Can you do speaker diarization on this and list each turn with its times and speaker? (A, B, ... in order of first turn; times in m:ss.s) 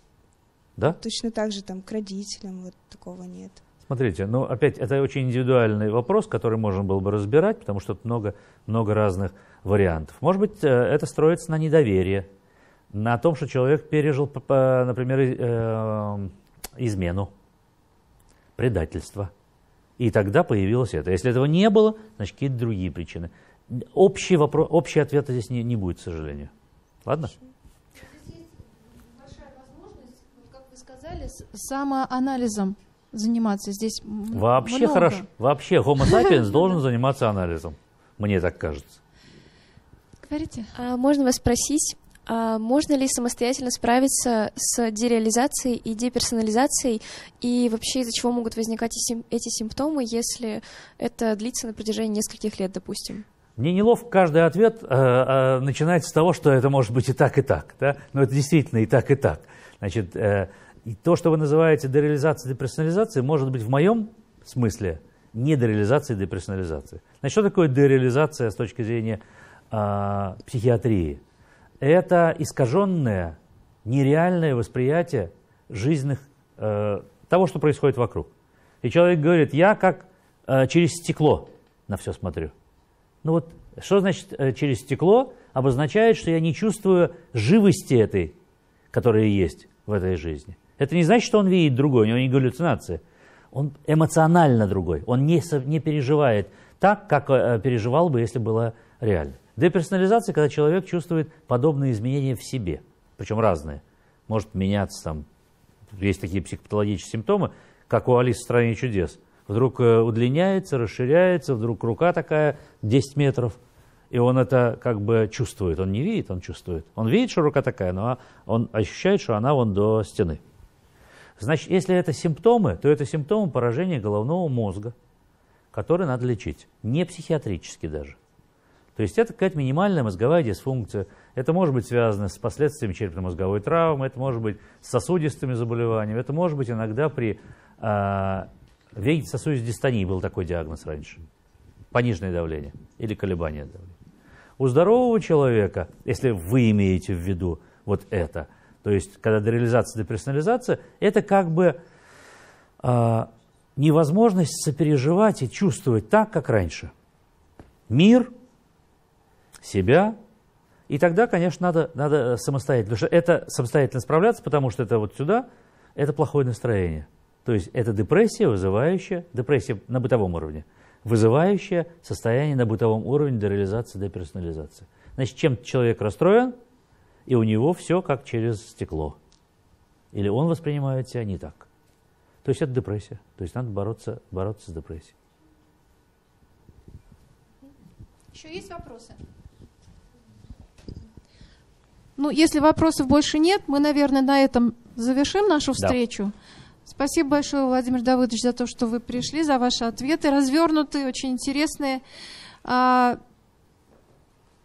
0:00.9-0:03.6 A
0:03.9-0:12.3 B
0:12.9-0:17.3 B
0:18.6-0:19.3 B
0:20.0-0:26.5 B
0:27.0-0:27.3 B
0:29.5-0:35.3 C
0:34.3-0:39.0 B
0:40.2-0:40.7 C
0:40.7-0:53.3 D
0:53.6-1:11.2 B
1:11.8-1:18.3 B
1:18.8-1:22.5 B
1:23.2-1:28.4 B
1:28.9-1:33.0 B
1:33.5-1:45.3 B
1:45.9-1:53.6 B
1:54.1-2:00.4 B
2:01.4-2:04.9 B
2:05.7-2:08.2 B
2:09.0-2:21.2 B
2:21.9-2:23.9 B
2:24.6-2:31.8 B
2:32.8-2:36.9 B
2:37.9-2:38.3 B
2:39.6-2:40.2 B
2:40.9-2:56.6 B
2:57.3-2:59.2 B
3:00.1-3:01.7 B
3:02.4-3:05.1 B
3:08.3-3:09.2 C
3:12.2-3:16.3 C
3:16.8-3:22.0 C
3:22.6-3:23.2 C